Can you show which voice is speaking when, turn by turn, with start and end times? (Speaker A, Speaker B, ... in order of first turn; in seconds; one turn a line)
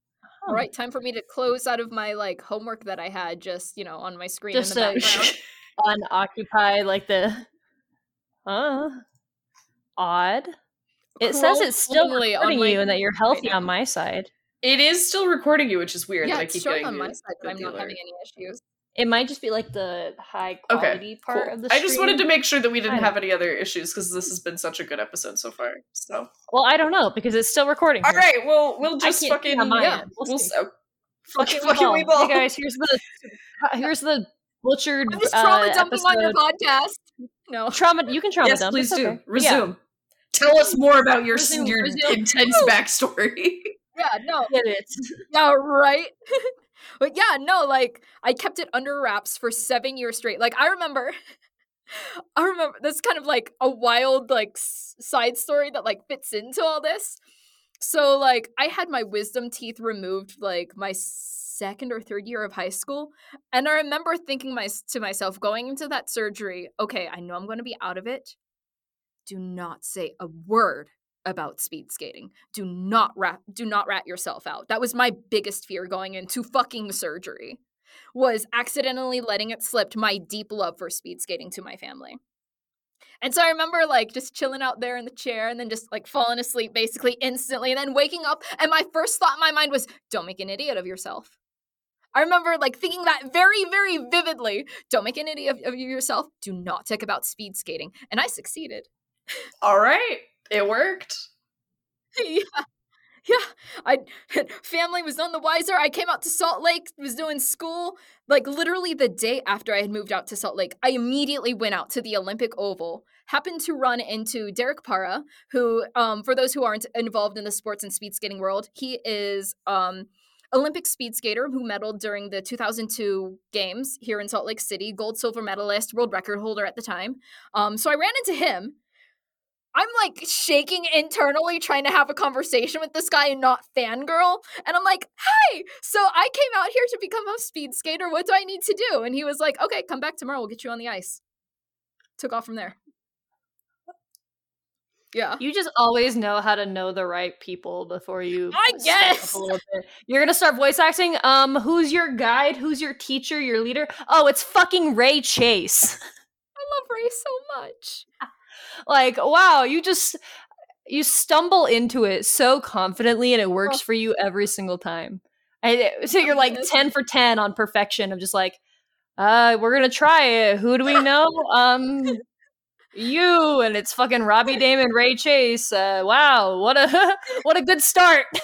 Speaker A: 0.5-5.4
Speaker B: 4.5-5.2
Speaker C: 5.0-5.4
Speaker B: 5.8-7.5
Speaker B: 8.5-9.0
Speaker B: 10.0-10.5
Speaker A: 11.2-13.7
Speaker B: 11.2-14.3
Speaker C: 14.6-18.0
Speaker A: 16.2-18.6
Speaker B: 19.0-22.3
Speaker C: 20.7-26.3
Speaker B: 22.9-23.1
Speaker B: 26.5-28.3
Speaker C: 28.0-30.7
Speaker B: 29.0-30.5
Speaker A: 29.8-30.1
Speaker C: 31.3-32.5
Speaker B: 31.4-36.4
Speaker A: 35.1-37.8
Speaker B: 37.7-39.6
Speaker C: 38.4-39.8
Speaker C: 40.3-43.7
Speaker B: 41.3-42.3
Speaker A: 42.5-42.8
Speaker A: 44.0-44.5
Speaker B: 44.5-45.2
Speaker A: 45.3-51.1
Speaker A: 51.9-57.2
Speaker A: 57.8-68.4
Speaker A: 69.3-77.6
Speaker A: 78.2-82.2
Speaker A: 83.2-91.3
Speaker A: 92.2-98.9
Speaker C: 99.6-101.2
Speaker A: 102.2-102.6
Speaker A: 103.3-128.8
Speaker A: 129.8-141.2
Speaker A: 142.2-142.8
Speaker A: 145.1-145.4
Speaker B: 145.4-156.0
Speaker A: 148.5-149.4
Speaker A: 156.6-158.1
Speaker B: 158.9-160.2
Speaker B: 160.9-168.6
Speaker A: 166.2-166.7
Speaker B: 169.2-172.2
Speaker B: 172.9-178.3